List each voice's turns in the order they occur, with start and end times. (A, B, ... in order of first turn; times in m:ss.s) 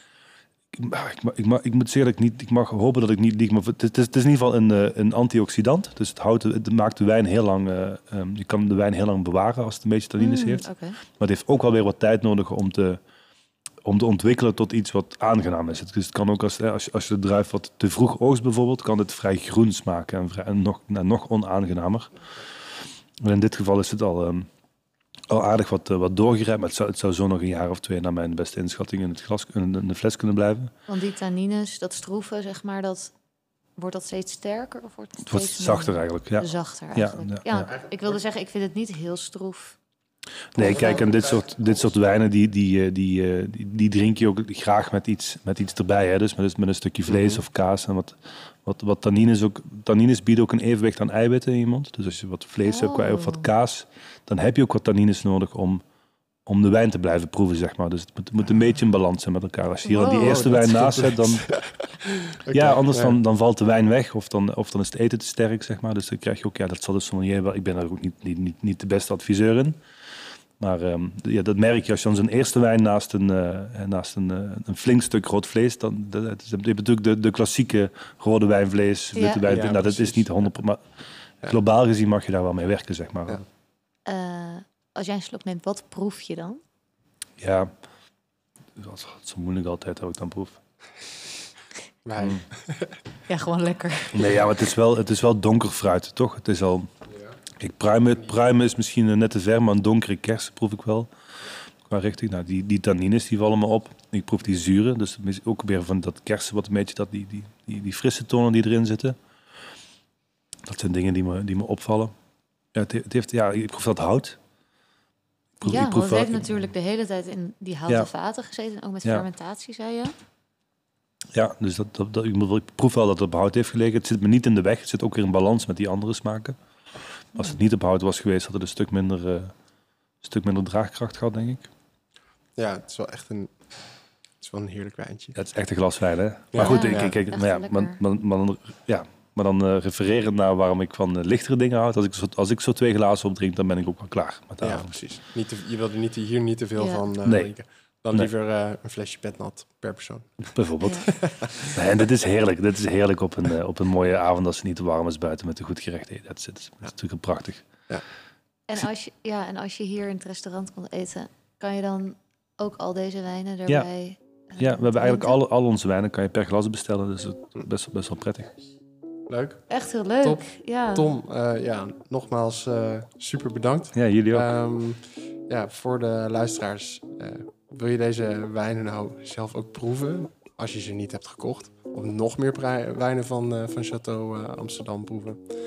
0:00.7-0:10.7 A
0:10.2-0:11.0 B
0:11.2-0:13.0 A
0:13.8-0:22.1 A
0:23.2-0:24.5 A
0:25.3-0:30.7 A
0:30.9-0:33.1 B
0:33.8-0:39.8 B
0:35.3-0:37.7 A
0:40.5-0:55.8 A
0:40.6-0:41.3 C
0:40.6-0:41.0 B
0:47.1-0:47.4 C
0:52.7-0:53.5 B
0:56.5-1:01.5 A
0:59.9-1:00.4 B
1:00.0-1:03.2 C
1:02.5-1:09.8 A
1:10.6-1:20.8 A
1:19.2-1:19.4 B
1:19.4-1:20.4 C
1:21.4-1:23.4 A
1:24.1-1:26.6 B
1:27.4-1:27.7 A
1:28.8-1:30.6 A
1:32.0-1:33.0 C
1:33.3-1:34.4 B
1:34.1-1:36.9 A
1:37.6-1:41.1 A
1:41.9-1:49.2 A
1:50.7-1:52.1 A
1:52.7-1:54.4 A
1:55.6-1:56.5 A
1:55.6-2:00.1 B
2:01.3-2:06.6 A
2:07.4-2:09.5 A
2:10.2-2:11.7 A
2:12.6-2:13.5 C
2:14.4-2:15.4 C
2:15.4-2:24.9 A
2:16.5-2:17.2 C
2:16.6-2:18.0 B
2:24.6-2:30.5 C
2:26.8-2:27.0 B
2:27.2-2:27.5 A
2:30.6-2:37.7 A
2:30.8-2:31.1 B
2:31.1-2:31.8 C
2:38.7-2:45.4 B
2:44.6-2:48.5 A
2:49.3-2:49.6 C
2:49.7-2:51.1 B
2:50.2-3:05.4 C
2:53.9-2:54.5 A